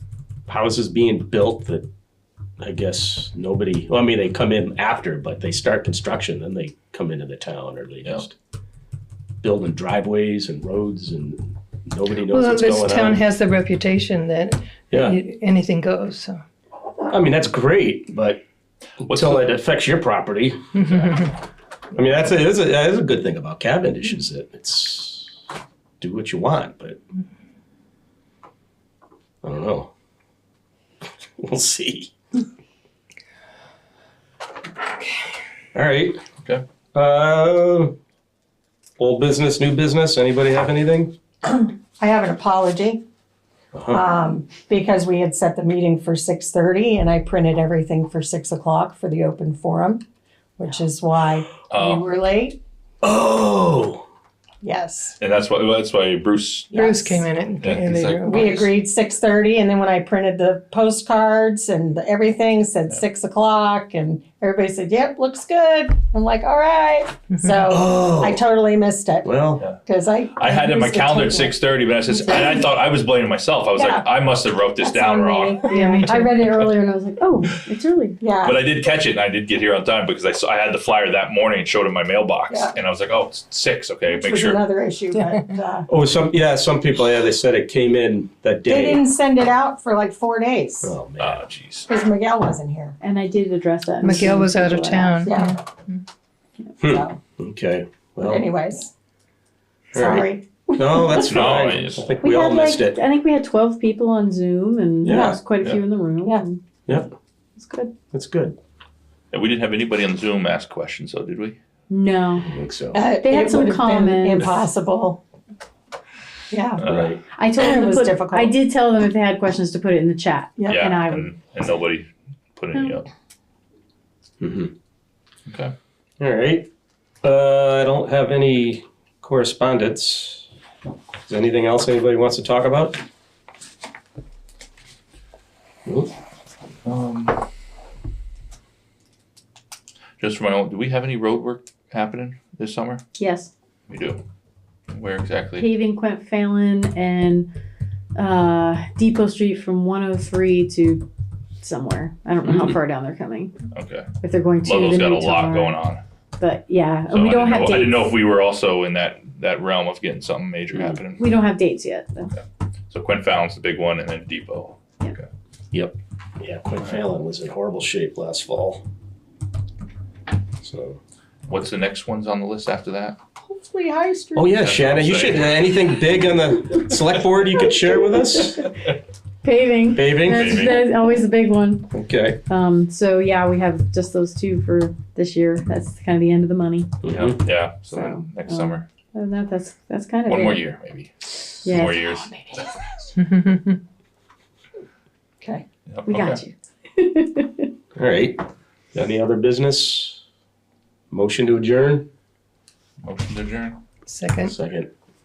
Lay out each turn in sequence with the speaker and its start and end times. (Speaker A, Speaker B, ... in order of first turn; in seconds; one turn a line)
Speaker A: 0.5-1.9
Speaker A: 2.6-8.3
Speaker A: 9.4-13.2
Speaker B: 12.3-16.4
Speaker A: 14.9-15.2
Speaker A: 17.1-18.4
Speaker A: 19.0-21.1
Speaker C: 19.1-19.3
Speaker A: 21.9-25.4
Speaker A: 26.0-27.0
Speaker A: 29.4-29.9
Speaker A: 31.4-32.1
Speaker A: 35.7-36.2
Speaker A: 36.9-38.0
Speaker A: 39.0-41.1
Speaker D: 41.4-43.0
Speaker A: 43.7-44.0
Speaker D: 43.9-50.0
Speaker D: 50.6-52.6
Speaker C: 51.7-52.1
Speaker A: 53.0-54.0
Speaker D: 54.6-55.2
Speaker C: 55.2-56.8
Speaker D: 56.7-57.2
Speaker B: 56.7-58.7
Speaker C: 57.6-58.7
Speaker D: 58.2-69.3
Speaker A: 67.7-68.4
Speaker A: 69.2-69.6
Speaker D: 69.8-71.6
Speaker C: 70.3-75.7
Speaker D: 73.8-74.1
Speaker D: 74.8-75.8
Speaker E: 75.6-78.2
Speaker B: 75.7-76.4
Speaker D: 78.2-78.6
Speaker C: 78.4-84.6
Speaker D: 82.5-82.8
Speaker D: 84.1-85.9
Speaker A: 85.9-89.0
Speaker D: 88.7-90.9
Speaker A: 90.8-91.4
Speaker C: 91.2-91.9
Speaker D: 91.9-93.0
Speaker E: 93.0-95.3
Speaker B: 94.0-96.0
Speaker D: 95.2-95.6
Speaker A: 96.8-98.5
Speaker D: 96.8-97.2
Speaker D: 98.2-98.9
Speaker D: 99.9-101.2
Speaker A: 99.9-103.0
Speaker C: 101.1-102.2
Speaker E: 102.2-106.6
Speaker A: 105.0-105.4
Speaker D: 105.0-105.4
Speaker A: 106.9-107.1
Speaker E: 107.6-107.9
Speaker A: 108.1-108.6
Speaker C: 109.3-111.6
Speaker E: 111.9-112.5
Speaker A: 112.4-113.0
Speaker D: 112.9-115.2
Speaker E: 113.1-114.7
Speaker D: 116.5-116.8
Speaker C: 116.8-117.2
Speaker A: 116.8-117.2
Speaker E: 117.3-121.3
Speaker D: 117.6-118.6
Speaker D: 120.6-120.9
Speaker C: 120.7-123.1
Speaker E: 122.7-123.0
Speaker A: 124.4-124.7
Speaker C: 125.5-125.7
Speaker A: 126.2-126.7
Speaker A: 127.2-130.5
Speaker A: 131.3-133.0
Speaker A: 135.9-136.1
Speaker C: 136.8-137.4
Speaker C: 140.2-143.0
Speaker E: 143.2-143.5
Speaker C: 143.9-144.2
Speaker C: 144.9-145.7
Speaker E: 145.6-147.5
Speaker E: 148.2-151.1
Speaker E: 151.6-153.6
Speaker A: 152.5-152.8
Speaker C: 153.7-154.1
Speaker E: 154.2-155.8
Speaker C: 154.6-156.0
Speaker E: 156.4-158.1
Speaker C: 157.1-161.3
Speaker E: 160.7-162.3
Speaker C: 162.9-165.2
Speaker A: 165.7-168.8
Speaker A: 170.6-171.0
Speaker C: 171.5-173.2
Speaker D: 173.4-174.5
Speaker A: 174.3-178.7
Speaker C: 174.5-175.5
Speaker E: 179.4-181.9
Speaker A: 179.9-180.7
Speaker C: 180.3-180.9
Speaker A: 181.9-182.4
Speaker E: 182.5-187.0
Speaker A: 187.0-187.4
Speaker C: 187.1-188.8
Speaker E: 187.9-190.7
Speaker C: 190.3-193.1
Speaker E: 191.6-192.3
Speaker B: 193.2-193.8
Speaker C: 195.9-196.4
Speaker E: 196.1-197.7
Speaker A: 197.9-200.2
Speaker A: 201.1-202.1
Speaker C: 203.0-203.8
Speaker B: 204.1-204.5
Speaker A: 204.4-204.9